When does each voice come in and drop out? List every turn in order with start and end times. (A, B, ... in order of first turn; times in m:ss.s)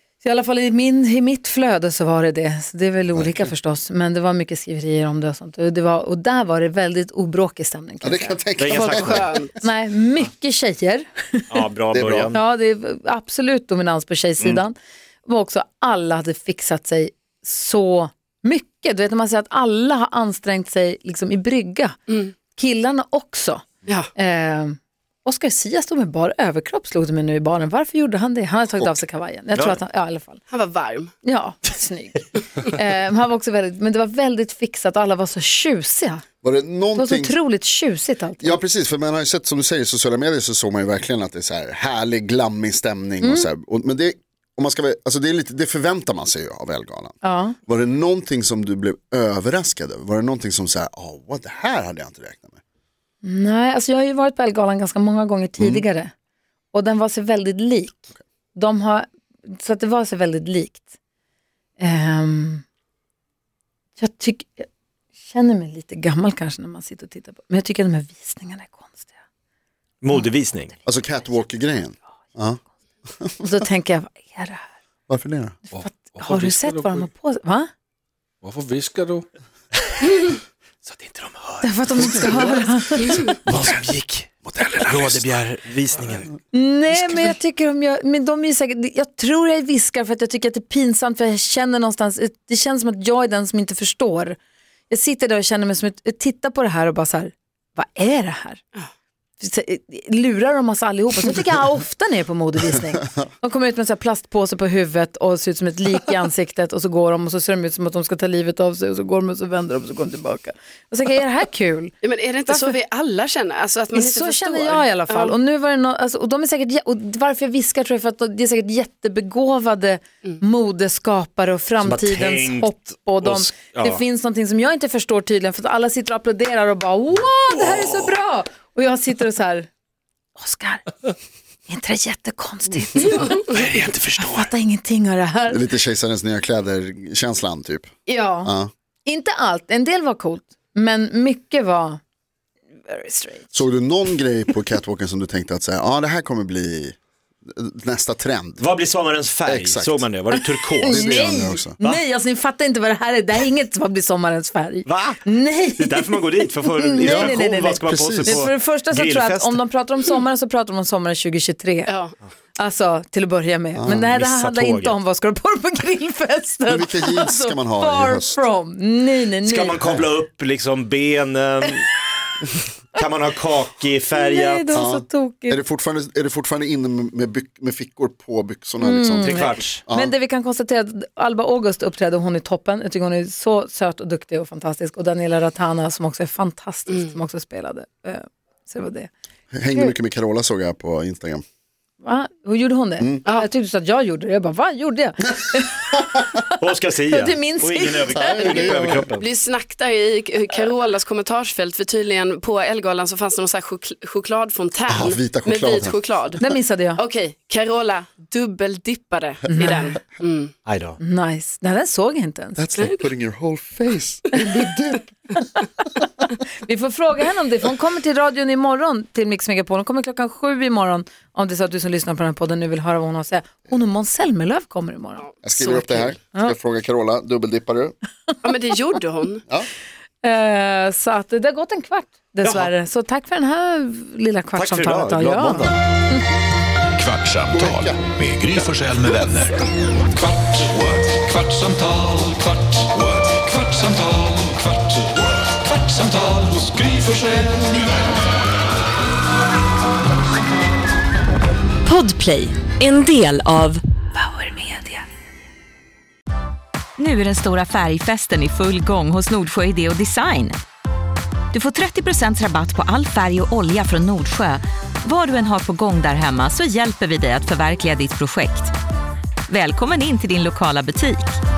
0:00.2-0:08.4 A
0:03.1-0:03.5 B
0:08.0-0:09.4 B
0:08.6-0:09.3 C
0:08.7-0:09.6 D
0:09.6-0:11.6 A
0:11.5-0:12.4 C
0:11.9-0:12.3 B
0:12.3-0:22.0 A
0:22.5-0:30.4 A
0:30.5-0:31.1 D
0:31.2-0:36.2 A
0:36.4-0:37.4 B
0:36.9-0:38.6 A
0:38.4-0:47.1 B
0:43.2-0:43.5 A
0:47.2-0:47.6 A
0:47.6-0:52.6 B
0:53.2-0:56.1 A
0:55.6-0:55.8 B
0:56.7-0:58.0 A
0:58.5-1:00.8 A
1:01.8-1:02.6 A
1:04.0-1:04.7 A
1:05.2-1:09.1 A
1:10.0-1:10.7 C
1:10.8-1:12.6 B
1:11.1-1:11.4 A
1:13.4-1:14.6 A
1:15.1-1:15.5 B
1:15.7-1:17.7 A
1:15.7-1:17.1 E
1:18.4-1:19.3 E
1:19.7-1:20.2 C
1:20.8-1:22.3 C
1:21.6-1:23.3 A
1:22.0-1:23.8 B
1:23.5-1:26.3 C
1:24.4-1:25.3 B
1:26.5-1:34.4 A
1:34.9-1:38.6 A
1:39.4-1:51.9 A
1:52.0-1:55.3 D
1:53.9-2:09.7 A
2:01.8-2:04.0 C
2:10.4-2:11.1 A
2:11.7-2:13.6 A
2:13.5-2:14.5 C
2:14.2-2:15.7 A
2:15.5-2:17.9 B
2:18.0-2:18.5 A
2:18.4-2:18.7 B
2:19.0-2:22.0 A
2:22.9-2:23.5 A
2:23.5-2:26.9 B
2:27.5-2:28.6 B
2:28.6-2:31.2 C
2:29.4-2:30.1 B
2:30.3-2:41.9 A
2:30.8-2:31.8 B
2:34.8-2:35.2 C
2:35.8-2:39.6 C
2:37.0-2:38.5 B
2:41.8-2:42.1 D
2:42.6-2:49.8 A
2:43.8-2:44.2 B
2:44.1-2:45.0 C
2:46.7-2:48.4 B
2:49.4-2:51.8 C
2:52.9-2:54.8 C
2:54.1-2:55.6 A
2:54.7-3:00.1 B
2:58.8-3:09.1 A
2:59.2-2:59.8 C
3:09.5-3:11.4 B
3:12.0-3:16.5 A
3:16.6-3:19.2 C
3:17.0-3:18.8 A
3:18.1-3:19.1 B
3:19.2-3:30.5 D
3:24.9-3:26.0 B
3:26.4-3:27.0 A
3:29.5-3:29.9 A
3:30.6-3:31.0 C
3:31.0-3:32.6 A
3:32.6-3:35.0 B
3:34.4-3:35.6 A
3:36.6-3:46.5 A
3:45.4-3:47.9 B
3:48.4-3:49.4 D
3:50.2-3:56.3 A
3:52.4-3:52.7 C
3:54.5-3:55.8 C
3:56.9-3:59.6 F
3:57.5-3:58.0 B
4:00.2-4:07.9 F
4:11.8-4:15.0 G
4:17.0-4:20.6 G
4:21.5-4:28.7 G
4:29.5-4:31.4 G